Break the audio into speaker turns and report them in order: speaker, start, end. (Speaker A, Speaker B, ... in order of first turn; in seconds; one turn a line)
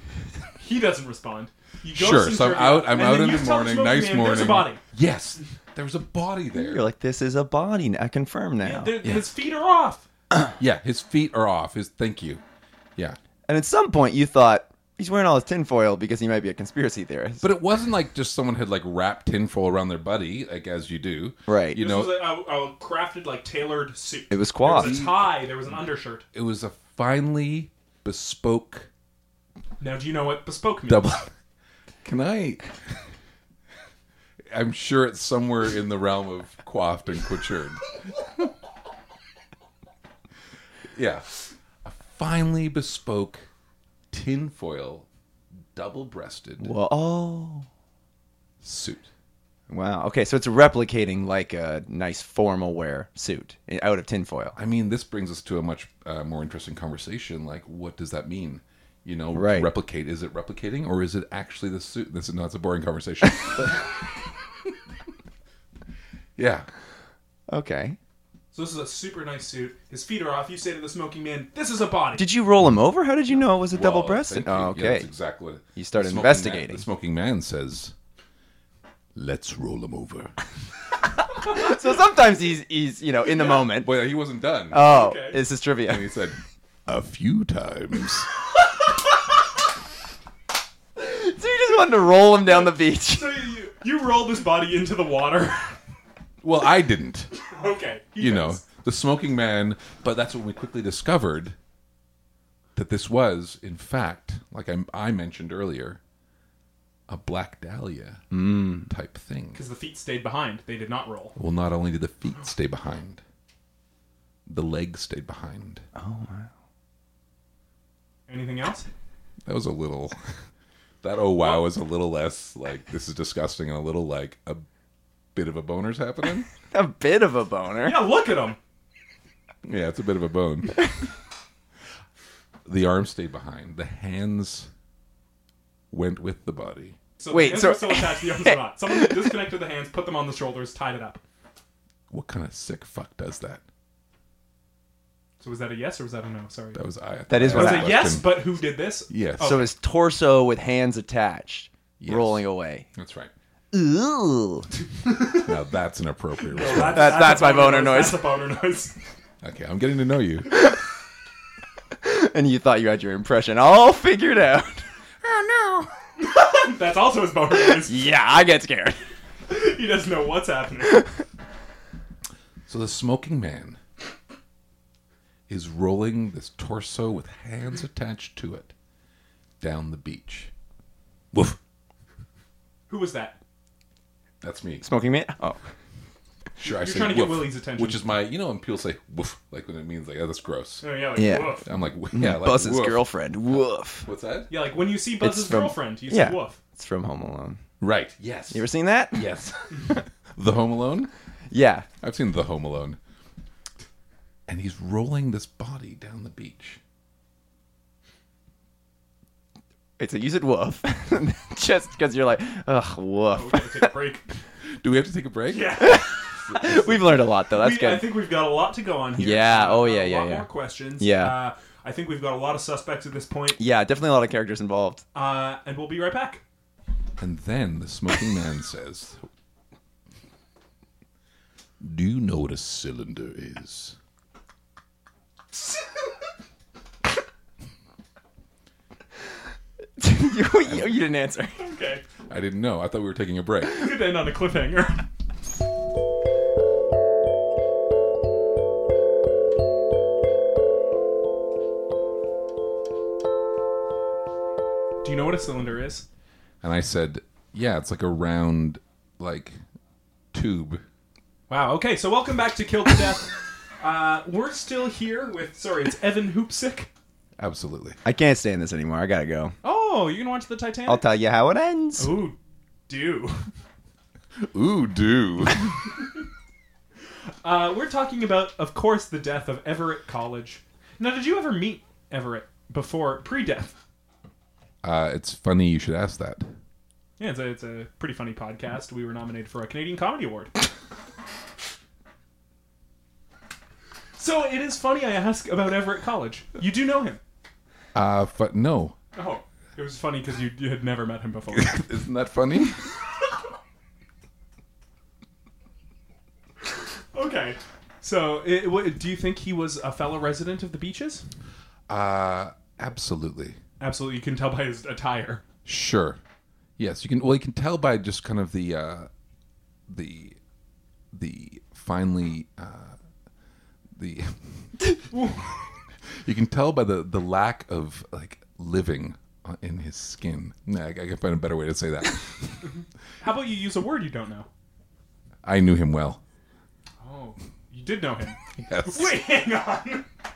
Speaker A: 0.6-4.8
Speaker B: 1.9-6.9
Speaker C: 6.5-9.0
Speaker A: 8.6-10.1
Speaker B: 10.6-12.4
Speaker C: 13.5-17.4
Speaker B: 17.4-22.2
Speaker C: 21.5-21.8
Speaker A: 21.8-26.2
Speaker C: 24.3-25.0
Speaker B: 24.6-25.4
Speaker B: 26.3-28.9
Speaker A: 29.8-31.1
Speaker B: 30.9-31.3
Speaker B: 32.0-32.7
Speaker B: 34.5-38.0
Speaker B: 40.9-43.5
Speaker B: 44.1-45.1
Speaker B: 45.7-46.7
Speaker C: 46.6-47.7
Speaker B: 48.6-49.1
Speaker C: 49.7-54.6
Speaker B: 54.6-64.0
Speaker C: 59.3-59.7
Speaker B: 66.4-66.7
Speaker C: 67.5-68.0
Speaker A: 68.5-72.3
Speaker C: 72.2-75.1
Speaker B: 73.7-77.9
Speaker C: 75.8-76.8
Speaker B: 79.2-80.3
Speaker C: 81.3-83.9
Speaker B: 83.7-84.8
Speaker C: 84.7-86.1
Speaker A: 84.8-85.4
Speaker B: 85.9-88.3
Speaker C: 91.0-93.4
Speaker A: 92.5-95.8
Speaker B: 96.4-97.3
Speaker A: 97.4-98.6
Speaker B: 98.2-101.6
Speaker B: 102.8-106.0
Speaker B: 107.1-109.6
Speaker C: 108.3-108.9
Speaker A: 109.5-111.3
Speaker B: 111.4-113.2
Speaker B: 114.5-115.8
Speaker C: 116.0-116.5
Speaker A: 118.3-118.9
Speaker B: 119.5-120.2
Speaker B: 121.0-124.7
Speaker B: 125.3-126.5
Speaker C: 126.7-128.0
Speaker A: 127.8-128.6
Speaker B: 129.6-130.9
Speaker B: 132.7-134.7
Speaker B: 135.9-137.0
Speaker A: 137.2-141.2
Speaker C: 137.3-139.1
Speaker B: 142.1-143.6
Speaker A: 145.4-146.8
Speaker B: 146.8-148.6
Speaker C: 147.3-148.2
Speaker A: 147.5-149.7
Speaker B: 149.1-149.6
Speaker C: 149.4-152.9
Speaker B: 152.0-153.3
Speaker C: 153.7-154.7
Speaker A: 155.1-155.4
Speaker B: 155.3-157.3
Speaker A: 156.5-158.9
Speaker C: 156.8-158.2
Speaker B: 159.4-160.7
Speaker C: 162.0-164.9
Speaker B: 165.2-165.9
Speaker A: 166.2-168.1
Speaker C: 167.7-169.0
Speaker A: 169.5-171.1
Speaker B: 172.7-173.8
Speaker B: 175.5-178.7
Speaker B: 179.6-180.5
Speaker B: 181.3-181.6
Speaker A: 182.9-183.4
Speaker B: 184.4-184.9
Speaker C: 184.8-185.6
Speaker B: 186.6-193.1
Speaker A: 186.6-188.1
Speaker A: 190.8-191.7
Speaker C: 191.2-194.1
Speaker B: 194.0-194.5
Speaker A: 194.5-196.6
Speaker C: 195.2-197.6
Speaker B: 197.8-201.1
Speaker C: 198.5-199.3
Speaker C: 201.5-201.9
Speaker B: 202.0-203.0
Speaker B: 204.5-206.8
Speaker C: 210.0-213.9
Speaker A: 213.3-214.3
Speaker B: 214.8-217.2
Speaker A: 215.5-216.1
Speaker C: 215.8-218.1
Speaker A: 217.5-223.6
Speaker C: 219.2-220.5
Speaker C: 221.0-221.4
Speaker C: 223.6-225.0
Speaker A: 225.1-226.4
Speaker B: 227.2-229.2
Speaker B: 231.8-234.0
Speaker C: 240.0-241.6
Speaker B: 240.6-241.0
Speaker A: 241.6-242.0
Speaker B: 242.3-243.9
Speaker A: 243.7-245.0
Speaker A: 255.0-256.1
Speaker B: 256.6-259.6
Speaker B: 260.3-260.8
Speaker A: 261.5-266.9
Speaker B: 267.4-268.0
Speaker C: 268.1-269.6
Speaker A: 269.6-271.1
Speaker C: 270.9-272.2
Speaker A: 272.0-272.4
Speaker A: 272.9-273.5
Speaker B: 274.4-275.8
Speaker A: 277.4-283.8
Speaker B: 284.8-286.5
Speaker A: 287.2-290.5
Speaker A: 294.2-297.2
Speaker B: 297.9-299.0
Speaker A: 299.2-301.8
Speaker B: 301.5-302.9
Speaker A: 307.1-311.2
Speaker B: 311.9-313.6
Speaker A: 313.8-315.4
Speaker B: 315.7-316.2
Speaker B: 316.8-319.1
Speaker B: 319.9-320.4
Speaker B: 321.1-322.9
Speaker B: 324.0-324.4
Speaker A: 325.1-325.4
Speaker B: 326.2-332.6
Speaker A: 333.2-334.5
Speaker B: 335.4-336.2
Speaker A: 337.0-340.1
Speaker B: 338.6-339.1